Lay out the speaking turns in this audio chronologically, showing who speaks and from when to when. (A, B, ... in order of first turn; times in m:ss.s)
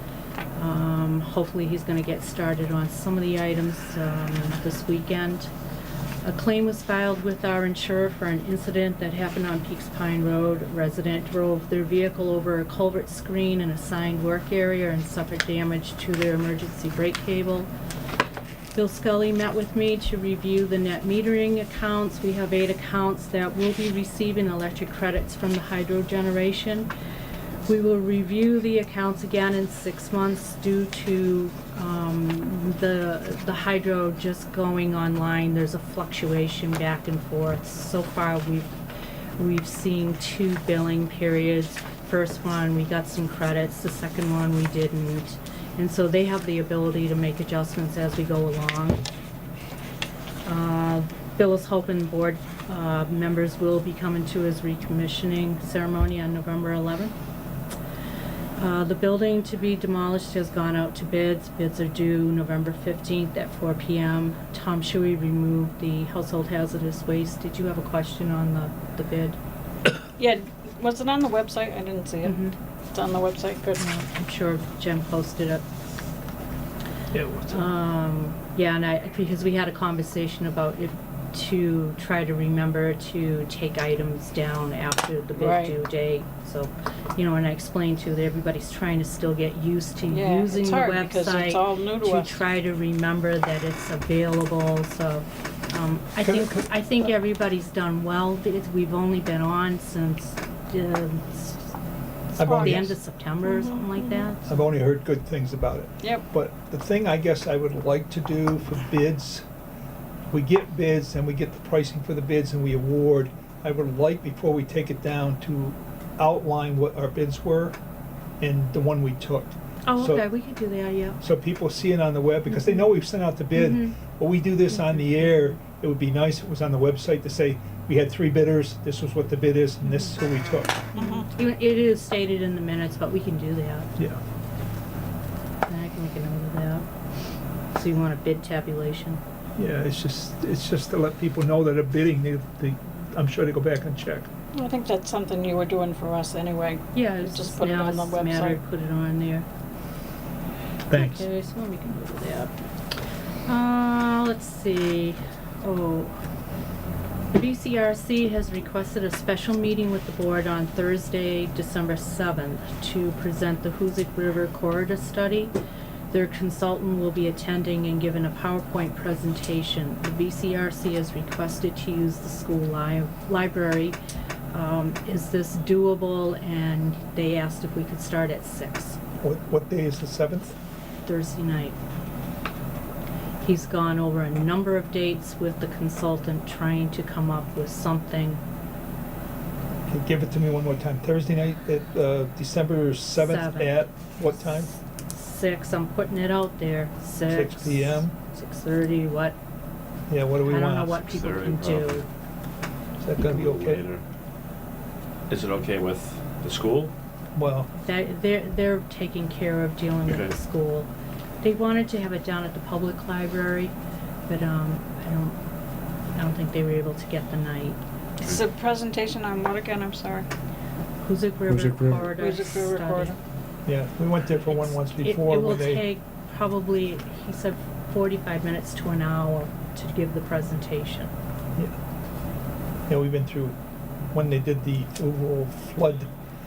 0:00.5-0:05.5 A
0:06.2-0:17.7 A
0:18.7-0:26.9 A
0:27.7-0:38.8 A
0:39.4-0:49.0 A
0:50.4-0:57.1 A
0:58.6-1:09.4 A
1:10.2-1:12.4 B
1:12.2-1:12.5 A
1:12.9-1:13.8 B
1:13.8-1:15.6 A
1:17.1-1:17.6 C
1:17.5-1:41.7 A
1:25.4-1:25.8 B
1:30.1-1:32.4 B
1:36.2-1:36.7 C
1:42.4-1:43.0 C
1:42.4-1:42.9 B
1:42.6-1:44.4 A
1:43.4-1:44.2 B
1:44.4-1:49.4 C
1:46.0-1:46.2 B
1:50.3-1:57.8 C
1:58.4-2:00.2 C
1:59.8-2:01.2 A
2:01.2-2:10.8 C
2:02.5-2:02.8 A
2:03.5-2:04.0 A
2:04.7-2:05.5 A
2:09.8-2:10.1 A
2:10.9-2:13.9 A
2:11.0-2:11.3 B
2:15.7-2:16.8 A
2:17.7-2:19.2 A
2:19.6-2:24.3 C
2:24.5-2:28.6 B
2:26.9-2:29.4 A
2:30.9-2:31.3 C
2:30.9-2:32.5 A
2:33.5-2:36.2 A
2:37.3-2:45.5 A
2:46.1-2:54.0 A
2:54.5-2:59.0 A
2:59.2-3:00.5 C
3:01.0-3:01.8 A
3:03.4-3:08.4 A
3:09.9-3:14.7 C
3:13.1-3:13.8 A
3:15.1-3:19.4 A
3:17.3-3:18.1 C
3:20.1-3:21.0 C
3:20.4-3:22.1 A
3:21.0-3:22.0 D
3:23.0-3:23.8 C
3:23.2-3:24.0 D
3:25.3-3:26.9 D
3:27.3-3:27.7 C
3:27.8-3:30.9 A
3:30.0-3:30.3 D
3:31.4-3:33.7 A
3:34.3-3:35.4 A
3:36.2-3:37.8 A
3:38.2-3:40.3 B
3:41.0-3:43.2 A
3:42.0-3:43.2 B
3:43.6-3:45.9 C
3:44.4-3:51.1 A
3:52.9-3:53.6 C
3:54.1-3:56.1 C